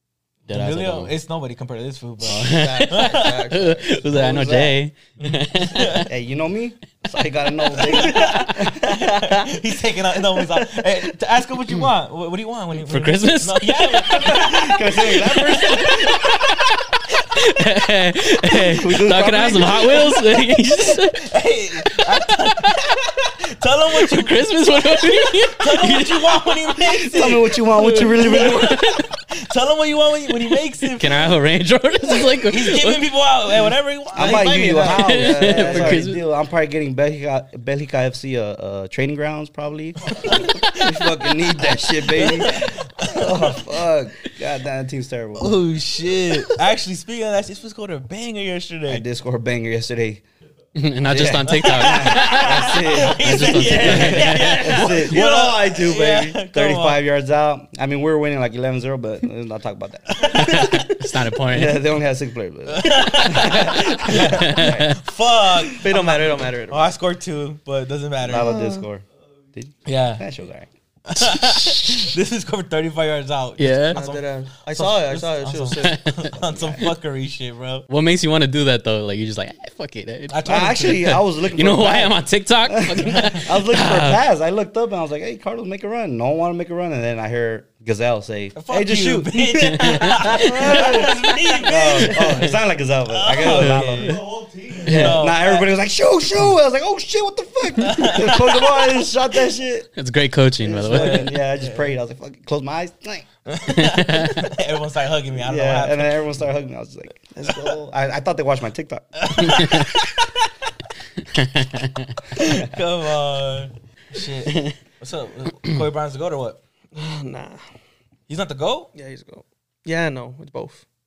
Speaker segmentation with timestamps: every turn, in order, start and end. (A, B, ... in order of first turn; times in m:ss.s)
0:00.5-0:01.1 A
0:00.5-0:03.3 B
0:02.2-0:06.1 A
0:02.3-0:04.1 C
0:04.1-0:04.8 D
0:05.2-0:06.1 B
0:06.0-0:09.5 D
0:07.7-0:16.3 B
0:07.9-0:08.4 C
0:12.8-0:14.6 A
0:14.2-0:16.2 D
0:15.3-0:16.8 A
0:17.4-0:21.2 A
0:18.5-0:20.1 D
0:20.8-0:31.4 B
0:21.9-0:22.8 A
0:23.9-0:29.0 A
0:27.1-0:28.9 D
0:30.9-0:33.1 A
0:32.1-0:34.7 B
0:34.1-0:45.6 D
0:34.2-0:36.0 C
0:34.7-0:36.2 A
0:40.2-0:40.7 B
0:42.1-0:43.6 B
0:45.4-0:49.0 B
0:48.9-0:50.2 D
0:50.7-0:54.6 A
0:51.1-0:55.2 D
0:51.5-0:57.0 B
0:53.6-0:56.4 C
0:56.5-1:00.9 D
1:00.2-1:00.9 B
1:00.4-1:01.8 A
1:01.5-1:05.0 D
1:02.7-1:08.5 B
1:04.1-1:05.0 A
1:05.8-1:06.9 C
1:08.2-1:10.7 D
1:08.3-1:08.8 C
1:09.8-1:10.2 B
1:11.1-1:17.9 B
1:11.3-1:12.1 D
1:13.6-1:14.0 A
1:13.9-1:16.0 C
1:15.8-1:16.2 A
1:16.3-1:16.8 D
1:17.9-1:24.2 A
1:20.3-1:21.1 B
1:20.4-1:34.2 D
1:28.5-1:32.5 B
1:29.6-1:30.9 A
1:30.4-1:31.0 C
1:32.1-1:32.5 A
1:33.1-1:34.2 B
1:33.5-1:34.2 A
1:34.0-1:34.9 C
1:34.8-1:39.9 D
1:34.8-1:35.7 B
1:34.9-1:35.1 A
1:37.8-1:38.6 B
1:40.0-1:41.3 A
1:40.6-1:43.2 D
1:40.8-1:41.9 B
1:43.5-1:46.2 B
1:43.7-1:44.5 A
1:45.4-1:49.5 D
1:49.2-1:50.5 B
1:49.5-1:49.9 A
1:51.3-1:52.1 A
1:52.3-1:56.6 B
1:56.9-1:57.7 C
1:58.3-1:58.9 B
1:58.9-2:00.8 C